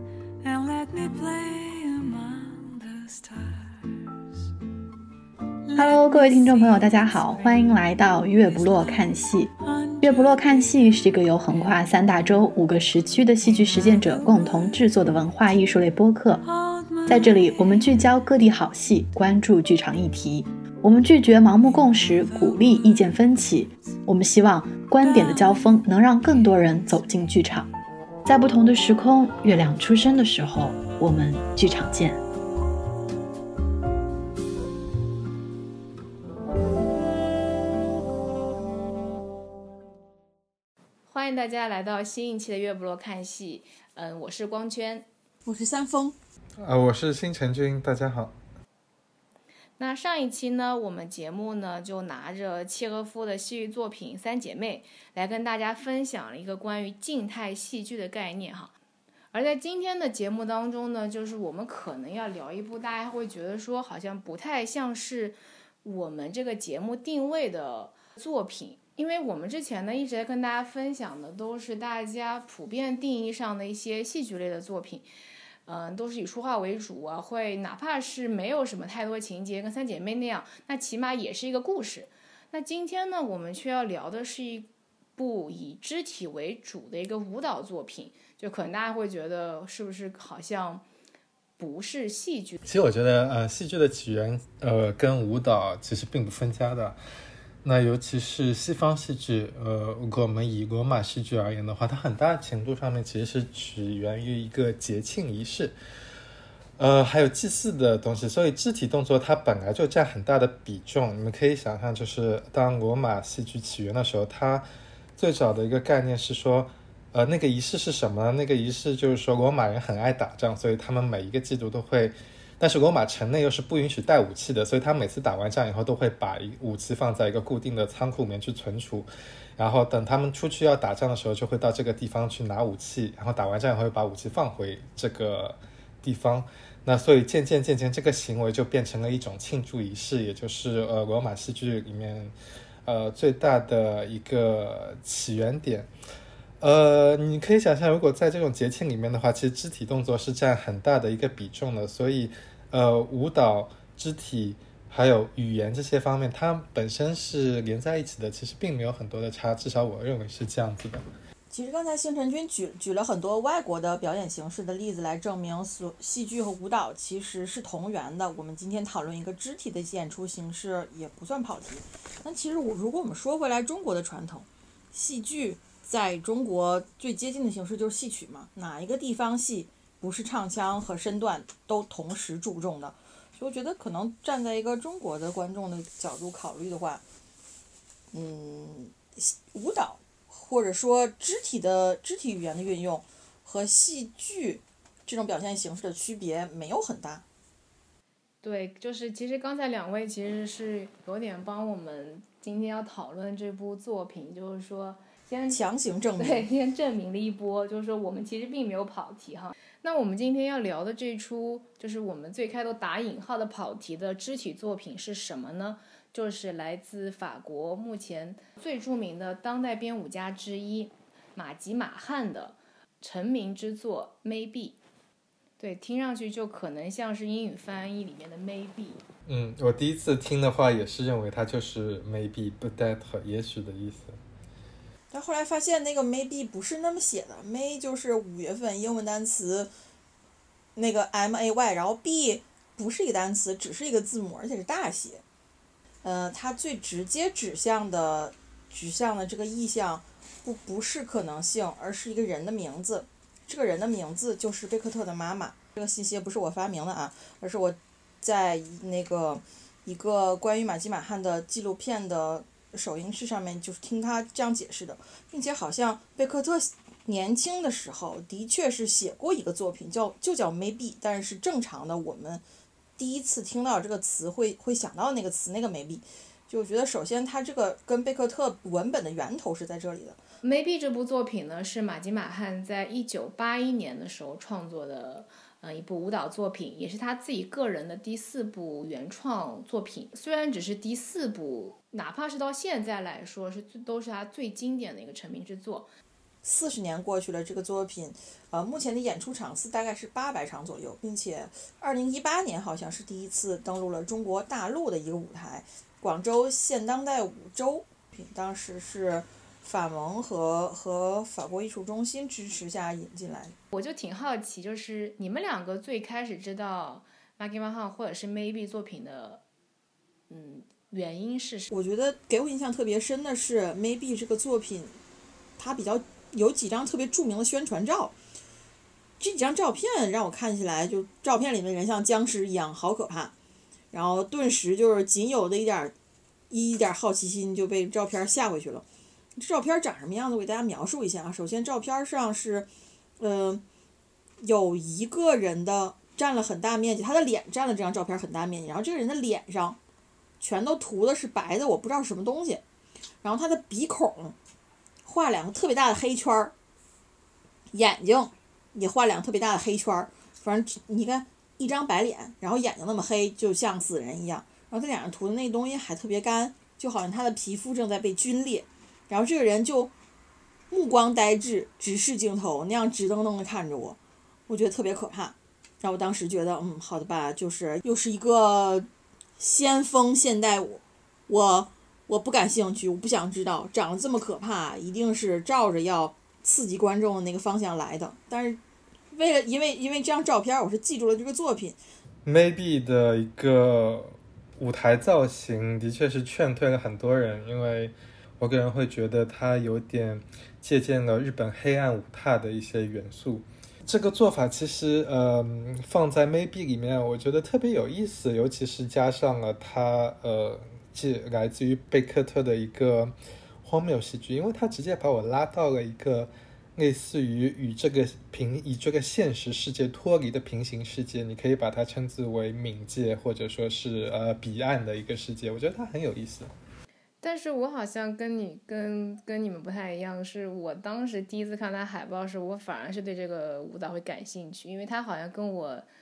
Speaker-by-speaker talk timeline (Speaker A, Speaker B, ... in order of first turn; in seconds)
Speaker A: 0.4-3.6
Speaker B: 5.7-9.5, 10.0-16.4, 17.1-27.7, 28.2-32.2
Speaker C: 41.1-45.0, 49.8-58.7, 59.3-75.1, 75.7-90.8, 91.6-92.6, 198.4-205.6, 206.2-224.8, 225.6-229.0, 280.4-295.9, 313.7-319.4, 320.3-321.7, 427.2-435.9
Speaker D: 45.5-46.2, 161.5-187.0, 188.1-197.2, 205.5-206.5, 235.1-239.7, 240.8-245.2, 246.0-272.4, 273.0-280.2, 296.4-313.6, 321.7-325.0, 325.6-328.1, 329.2-333.3, 333.9-335.9, 336.5-343.6, 344.4-349.8, 350.4-352.6, 353.2-354.4, 355.1-356.5, 357.7-369.9, 370.7-391.8
Speaker E: 46.6-48.4, 92.6-97.0, 97.6-105.8, 106.8-142.3, 142.8-145.9, 146.6-161.0, 229.2-234.2, 392.2-426.5